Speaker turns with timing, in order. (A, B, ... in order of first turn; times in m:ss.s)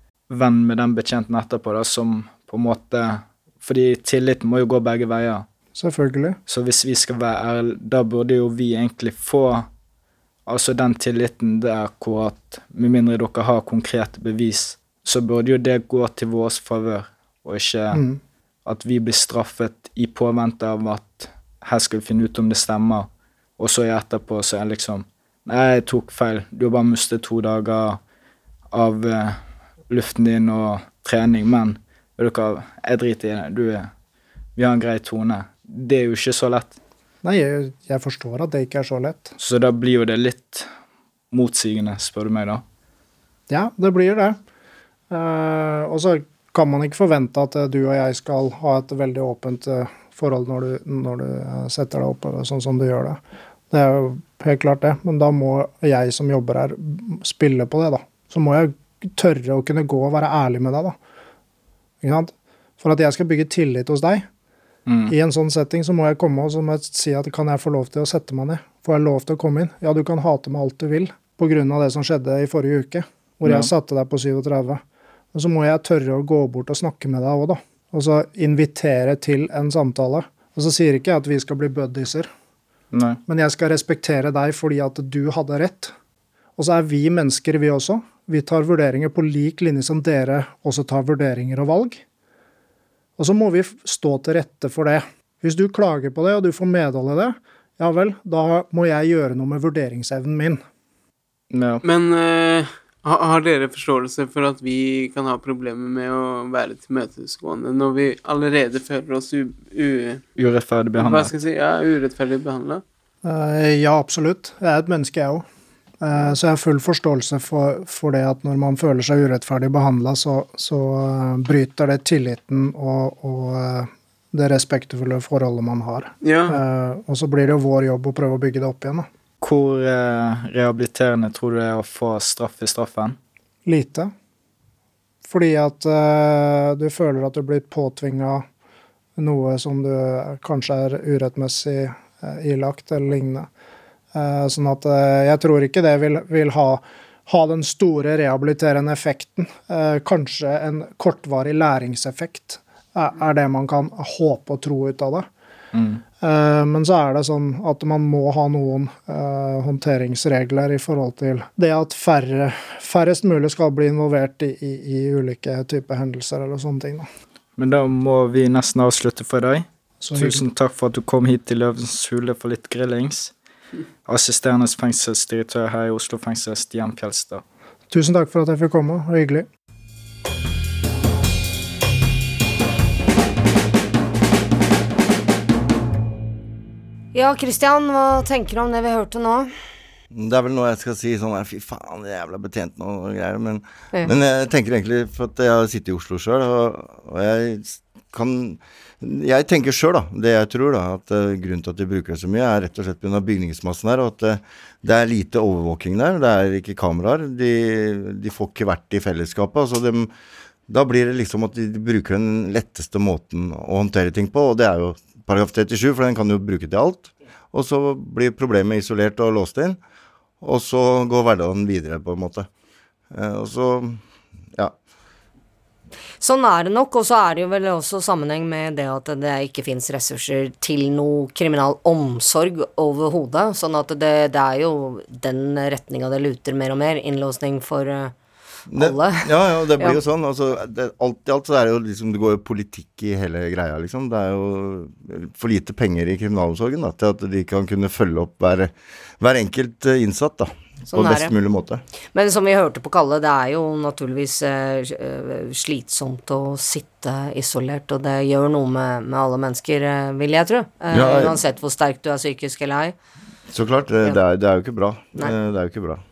0:00.3-0:05.4 A
0:05.8-0:06.4 B
0:06.5-0:09.7 A
0:10.4-0:18.0 A
0:17.9-0:18.2 B
0:18.6-0:28.0 A
0:28.7-0:29.4 A
0:29.9-0:33.9 A
0:34.6-0:36.8 A
0:37.2-0:39.3 B
0:39.4-0:40.7 A
0:41.3-0:42.6 A
0:43.5-0:44.4 B
0:45.1-0:53.2 B
0:53.7-1:01.0 B
1:02.0-1:04.2 B
1:04.9-1:05.1 A
1:05.1-1:14.8 B
1:15.3-1:22.3 B
1:22.9-1:23.2 A
1:23.3-1:25.9 B
1:26.6-1:32.0 B
1:33.2-1:40.6 B
1:41.5-1:41.8 A
1:41.8-1:50.2 C
1:50.4-1:51.3 A
1:51.0-1:52.8 C
1:53.2-1:55.4 B
1:56.0-2:09.1 B
2:06.2-2:06.6 C
2:09.4-2:13.2 A
2:13.6-2:14.1 B
2:15.3-2:18.4 B
2:19.2-2:23.5 B
2:24.1-2:35.3 B
2:35.7-2:36.0 A
2:36.2-2:47.1 B
2:47.6-2:53.3 A
2:50.0-2:50.4 B
2:54.0-2:57.4 A
2:57.9-2:59.4 B
3:07.1-3:09.5 D
3:10.1-3:30.1 E
3:30.7-3:39.8 E
3:40.4-3:42.5 E
3:43.1-3:44.0 E
3:46.2-3:58.1 D
3:58.7-4:11.8 E
3:58.8-4:00.0 D
4:10.9-4:11.3 D
4:12.1-4:22.9 D
4:20.9-4:21.4 E
4:23.5-4:26.0 E